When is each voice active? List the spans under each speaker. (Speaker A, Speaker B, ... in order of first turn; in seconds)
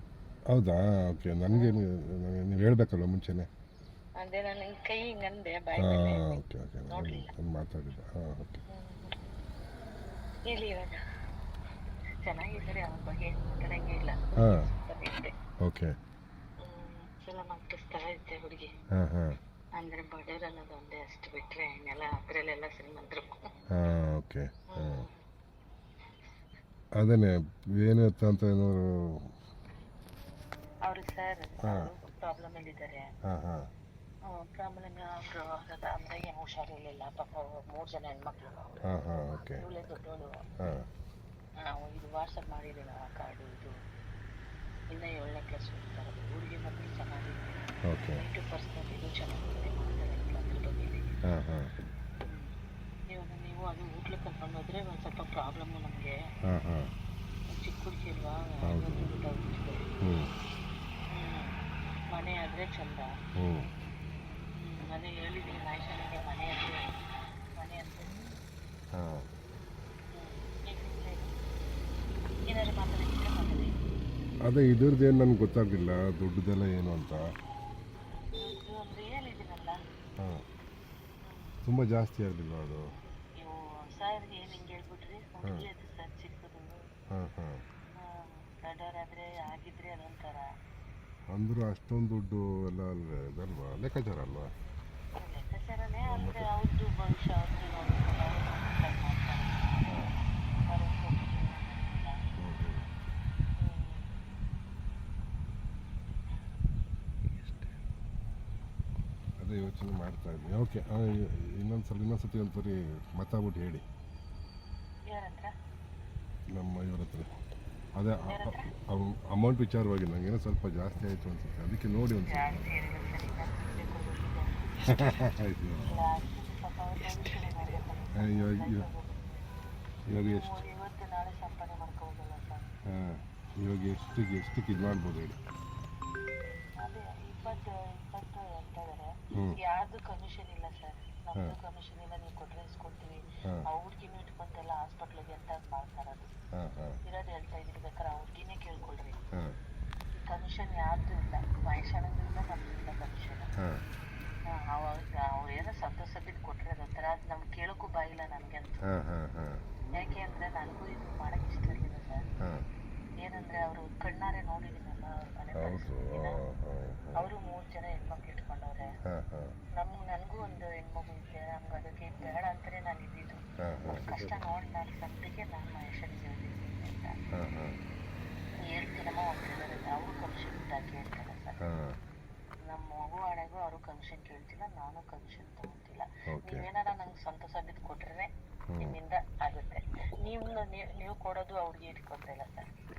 Speaker A: 0.5-3.5, 5.8-8.6, 15.7-15.9, 19.0-19.4, 23.8-25.1, 27.0-29.3, 33.3-33.7, 38.9-39.7, 47.9-48.2, 51.3-51.7, 56.5-56.9, 58.7-59.1, 60.0-60.3, 63.4-63.7, 69.0-69.3, 74.5-77.2, 81.7-82.9, 87.2-87.6, 91.3-94.5, 96.1-96.5, 102.4-102.9, 109.4-113.8, 116.5-117.3, 118.0-122.6, 124.8-126.0, 128.2-128.9, 130.1-130.6, 132.9-135.4, 146.6-147.0, 158.9-159.6, 165.6-167.3, 169.1-169.5, 173.7-174.4, 177.4-177.7, 181.7-182.0, 186.3-186.7, 188.7-189.0
Speaker B: 1.5-1.8, 4.2-7.3, 8.7-9.2, 10.5-11.0, 12.2-15.3, 16.6-18.7, 19.8-23.4, 24.7-25.2, 30.8-33.0, 34.3-40.5, 41.6-43.8, 44.9-51.1, 53.1-56.1, 57.5-59.9, 61.1-61.5, 62.1-63.1, 64.5-66.8, 67.6-68.3, 70.2-71.3, 72.5-73.7, 78.4-79.8, 81.2-81.5, 83.4-86.8, 88.0-90.5, 95.2-99.9, 100.7-102.2, 103.6-104.1, 115.1-115.5, 118.3-118.7, 122.3-125.1, 125.9-129.5, 130.2-132.7, 136.8-146.3, 147.1-149.2, 150.2-153.5, 154.5-158.8, 159.9-162.2, 163.2-166.4, 167.2-168.9, 169.8-177.2, 178.7-181.6, 182.7-188.3, 188.8-192.7